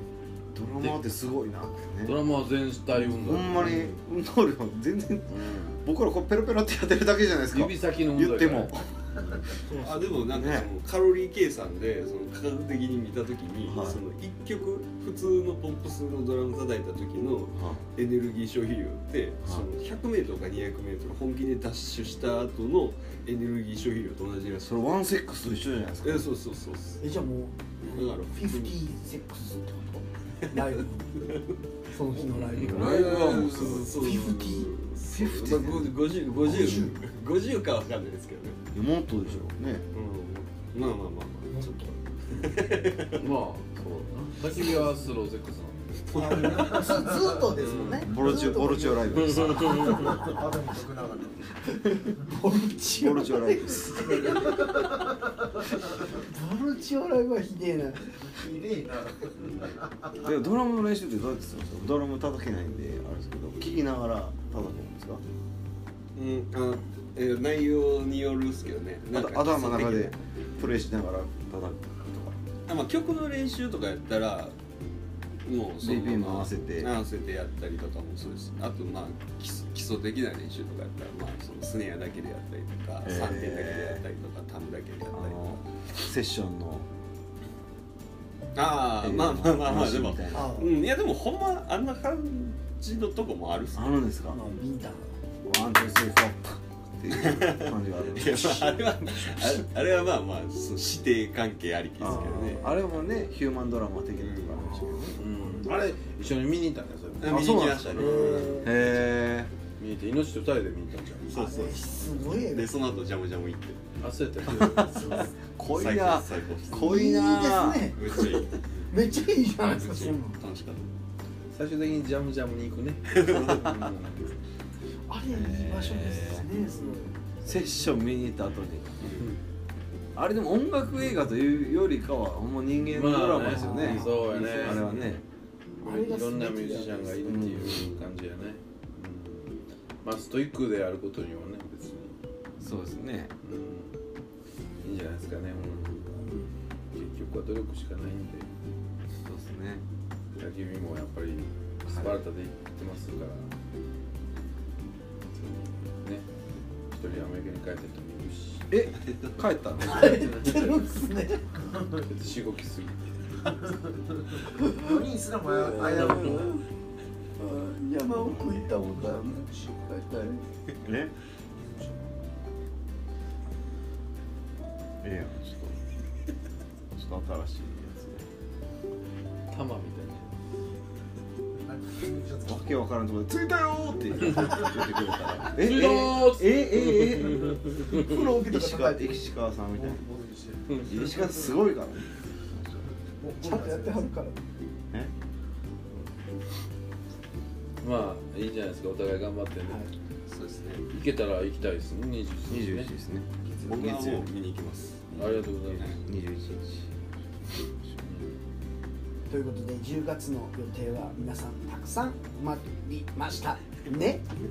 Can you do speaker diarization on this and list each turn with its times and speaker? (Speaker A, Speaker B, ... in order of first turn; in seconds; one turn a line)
Speaker A: 0.5-2.2
Speaker B: 2.0-3.9
Speaker A: 3.0-10.7
Speaker B: 5.3-5.8
Speaker B: 7.5-8.8
Speaker C: 9.7-24.8
Speaker A: 13.6-14.0
Speaker A: 17.5-17.8
Speaker A: 24.6-26.3
Speaker C: 26.0-27.0
Speaker D: 27.0-31.3
Speaker C: 27.9-28.8
Speaker D: 31.9-33.1
Speaker B: 32.5-34.0
Speaker A: 32.6-33.7
Speaker C: 32.6-38.6
Speaker D: 33.8-35.5
Speaker A: 35.2-35.9
Speaker D: 36.4-37.0
Speaker A: 38.7-39.8
Speaker C: 39.2-41.7
Speaker D: 41.6-42.0
Speaker C: 42.3-43.1
Speaker B: 43.1-46.1
Speaker D: 44.5-44.9
Speaker C: 46.0-46.9
Speaker E: 46.1-47.4
Speaker D: 46.5-50.3
Speaker C: 47.5-47.9
Speaker B: 47.6-48.1
Speaker A: 48.0-50.2
Speaker B: 49.2-50.2
Speaker E: 49.9-51.5
Speaker D: 51.6-55.0
Speaker A: 53.0-54.4
Speaker D: 55.6-58.1
Speaker E: 58.2-60.2
Speaker A: 60.2-65.2
Speaker C: 66.1-70.2
Speaker A: 69.1-72.4
Speaker C: 72.7-74.5
Speaker C: 75.4-85.5
Speaker A: 75.8-76.9
Speaker A: 83.0-84.0
Speaker A: 85.1-86.9
Speaker C: 88.5-94.6
Speaker A: 89.0-90.6
Speaker D: 90.3-90.8
Speaker A: 93.7-94.5
Speaker D: 94.3-95.1
Speaker A: 95.4-99.6
Speaker C: 97.1-102.6
Speaker A: 102.0-105.2
Speaker D: 102.0-102.6
Speaker C: 104.2-104.7
Speaker D: 104.5-105.7
Speaker B: 105.2-107.9
Speaker C: 107.2-109.0
Speaker A: 107.2-109.5
Speaker D: 107.9-108.8
Speaker B: 109.8-111.3
Speaker C: 111.3-113.9
Speaker D: 111.3-112.7
Speaker B: 114.0-115.0
Speaker C: 114.4-117.0
Speaker A: 114.5-117.9
Speaker D: 114.9-115.3
Speaker D: 116.7-120.4
Speaker C: 117.9-119.0
Speaker C: 119.5-120.9
Speaker B: 121.5-124.3
Speaker C: 123.1-123.8
Speaker D: 125.1-127.2
Speaker A: 125.3-126.5
Speaker B: 126.6-127.1
Speaker A: 127.4-129.0
Speaker C: 129.0-129.3
Speaker A: 130.1-135.2
Speaker B: 132.9-134.9
Speaker D: 133.4-134.6
Speaker C: 134.4-135.2
Speaker B: 135.8-142.8
Speaker D: 135.8-137.2
Speaker A: 137.2-138.0
Speaker A: 142.6-143.3
Speaker B: 143.4-144.0
Speaker B: 144.8-146.2
Speaker D: 146.2-146.5
Speaker B: 146.9-148.5
Speaker A: 149.2-149.8
Speaker B: 150.4-153.5
Speaker A: 151.8-152.2
Speaker B: 155.3-156.3
Speaker B: 156.9-158.7
Speaker A: 158.7-160.3
Speaker C: 159.0-159.3
Speaker D: 159.8-161.6
Speaker B: 159.8-160.8
Speaker E: 161.7-162.0
Speaker B: 162.0-163.5
Speaker E: 163.4-166.6
Speaker D: 164.5-164.8
Speaker B: 165.6-166.5
Speaker D: 166.2-166.6
Speaker D: 167.4-170.4
Speaker A: 168.2-168.5
Speaker E: 168.3-170.0
Speaker A: 170.8-171.1
Speaker E: 171.5-172.2
Speaker A: 175.0-175.8
Speaker A: 176.9-178.2
Speaker B: 179.5-180.3
Speaker E: 181.6-182.9
Speaker A: 182.4-190.0
Speaker E: 184.4-184.8
Speaker B: 185.5-188.2
Speaker D: 187.7-189.2
Speaker E: 189.7-191.4
Speaker A: 190.8-192.8
Speaker E: 193.2-194.1
Speaker D: 193.4-194.4
Speaker B: 197.8-199.8
Speaker D: 199.6-199.9
Speaker C: 200.2-200.8
Speaker B: 200.9-202.9
Speaker A: 202.5-204.3
Speaker C: 203.6-206.0
Speaker B: 205.1-206.0
Speaker A: 206.0-206.9
Speaker A: 207.5-208.0
Speaker B: 208.0-208.3
Speaker D: 209.3-214.2